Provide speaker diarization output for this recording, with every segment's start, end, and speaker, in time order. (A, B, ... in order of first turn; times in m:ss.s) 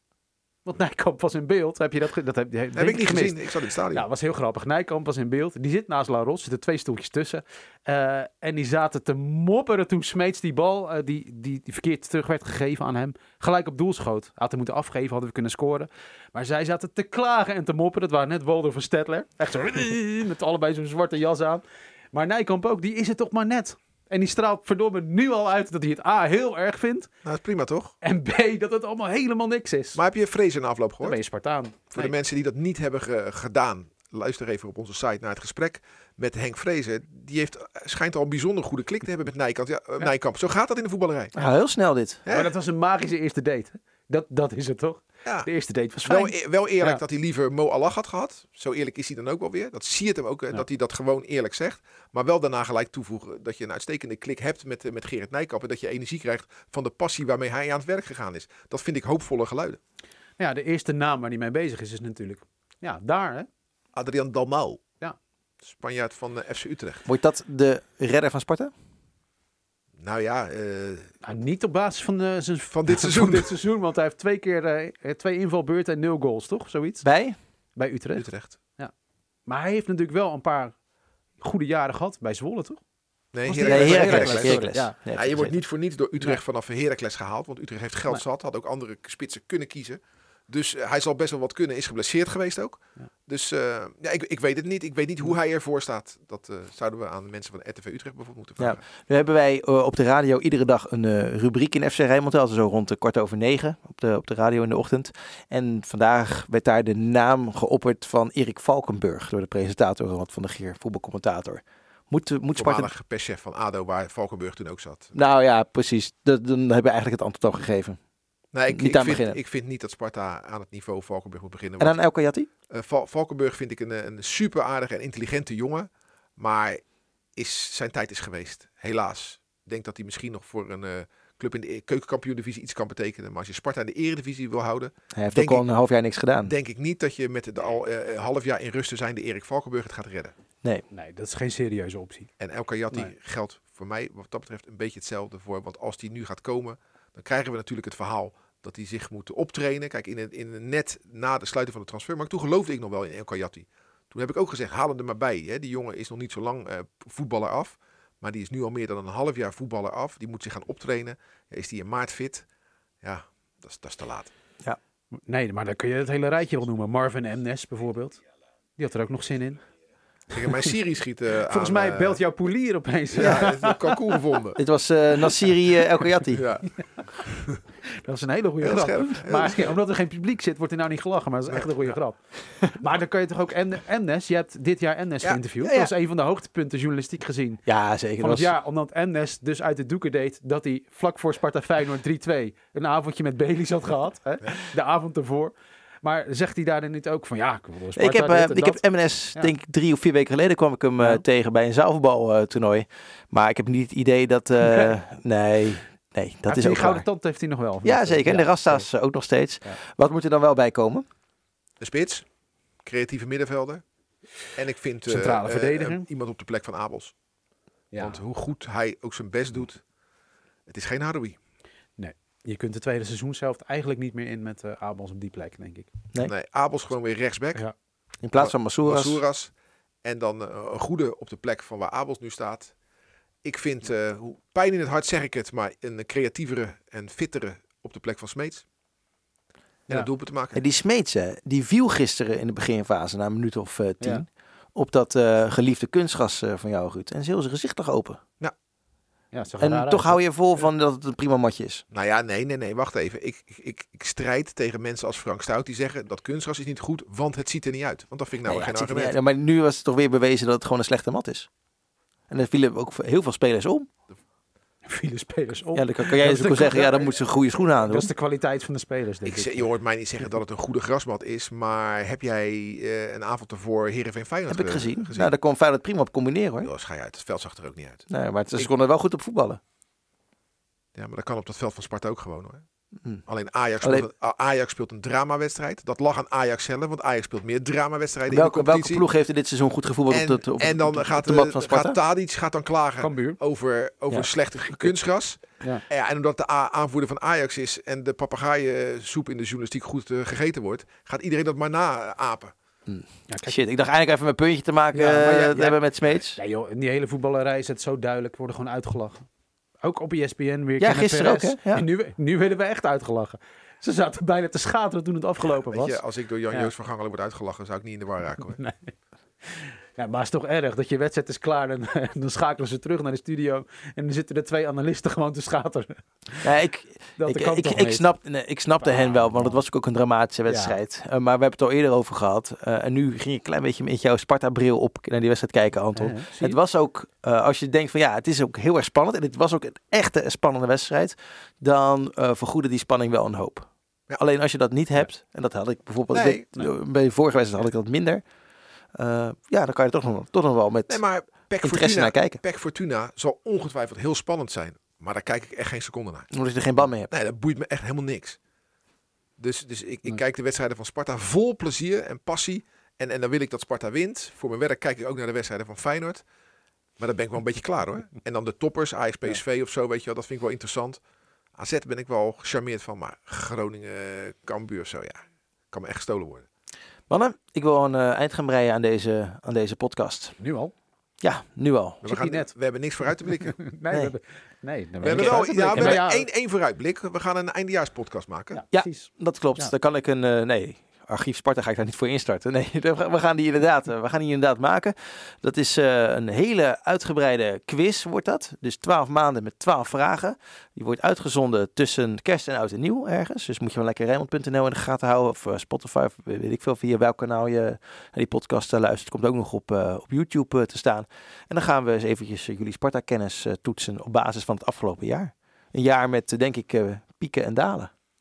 0:00.6-0:27.1 A
0:02.7-0:04.0 B
0:27.2-0:27.9 B
0:28.0-0:30.0 A
0:29.9-0:31.2 B
0:31.0-0:32.1 A
0:31.9-0:41.3 B
0:41.3-0:42.2 C
0:42.2-0:42.5 B
0:42.3-0:47.0 A
0:46.0-0:59.8 B
1:00.4-1:03.5 A
1:03.9-1:04.8 B
1:05.6-1:07.0 B
1:07.0-1:08.7 C
1:10.0-1:11.0 B
1:11.2-1:17.0 A
1:12.7-1:13.5 B
1:17.0-1:17.4 C
1:17.8-1:18.9 A
1:18.1-1:18.6 B
1:19.4-1:20.7 A
1:21.4-1:22.8 A
1:23.3-1:38.8 B
1:23.4-1:24.9 A
1:23.6-1:25.6 C
1:38.6-1:52.9 C
1:52.5-1:55.1 B
1:55.1-1:58.0 C
1:58.5-2:02.0 B
1:58.7-1:59.4 C
2:01.8-2:02.5 C
2:02.7-2:06.8 B
2:07.4-2:15.7 B
2:15.2-2:16.5 C
2:16.4-2:20.3 B
2:20.9-2:22.3 A
2:22.4-2:42.4 B
2:43.0-2:44.3 B
2:45.2-2:48.2 A
2:48.8-2:49.6 A
2:50.3-2:52.2 B
2:51.5-2:54.0 A
2:53.1-2:54.6 B
2:54.6-2:56.4 C
2:56.3-2:56.7 B
2:57.2-2:57.6 B
2:58.0-3:02.2 A
2:58.6-2:59.8 B
3:01.5-3:01.9 B
3:02.7-3:07.6 A
3:05.2-3:05.6 B
3:07.6-3:08.5 C
3:08.2-3:18.8 A
3:18.0-3:27.0 C
3:21.0-3:21.2 A
3:26.4-3:28.9 A
3:27.8-3:31.0 C
3:31.8-3:32.2 B
3:32.8-3:33.8 B
3:34.5-3:37.1 B
3:35.1-3:36.1 A
3:37.9-3:38.2 A
3:38.0-3:39.8 B
3:40.7-3:41.4 B
3:42.0-3:45.9 A
3:46.2-3:47.6 B
3:48.2-3:49.2 C
3:48.3-3:49.5 B
3:50.0-3:52.7 B
3:53.4-3:58.6 B
3:59.9-4:00.6 B
4:00.5-4:08.2 C
4:09.3-4:10.2 A
4:09.6-4:11.8 C
4:11.9-4:19.2 B
4:18.4-4:21.5 C
4:22.3-4:23.9 C
4:24.8-4:29.7 A
4:25.7-4:28.1 C
4:29.2-4:35.3 B
4:34.5-4:36.7 C
4:36.6-4:38.0 B
4:38.1-4:39.6 C
4:41.0-4:42.6 B
4:43.2-4:49.0 B
4:43.8-4:44.1 C
4:48.3-4:52.0 C
4:50.1-5:02.5 B
4:53.0-4:53.4 A
5:02.9-5:06.4 C
5:03.3-5:03.6 A
5:04.9-5:05.8 A
5:06.3-5:09.2 A
5:09.8-5:16.7 A
5:10.8-5:11.8 C
5:15.7-5:18.6 B
5:18.4-5:18.9 A
5:19.4-5:26.4 A
5:26.4-5:48.2 C
5:27.2-5:28.1 A
5:28.8-5:29.6 A
5:30.5-5:30.8 A
5:35.9-5:36.6 A
5:46.1-5:46.4 B
5:49.0-5:51.0 C
5:50.9-5:56.3 B
5:51.6-5:52.4 C
5:56.3-5:57.1 C
5:57.1-5:58.4 B
5:59.4-6:06.2 B
6:07.0-6:11.0 B
6:11.6-6:15.2 B
6:15.7-6:16.4 B
6:17.1-6:20.3 C
6:20.4-6:20.7 A
6:21.2-6:22.0 C
6:22.0-6:23.6 B
6:22.0-6:22.5 A
6:23.3-6:26.3 A
6:25.0-6:28.6 B
6:25.1-6:26.0 C
6:28.5-6:29.7 A
6:28.7-6:57.9 C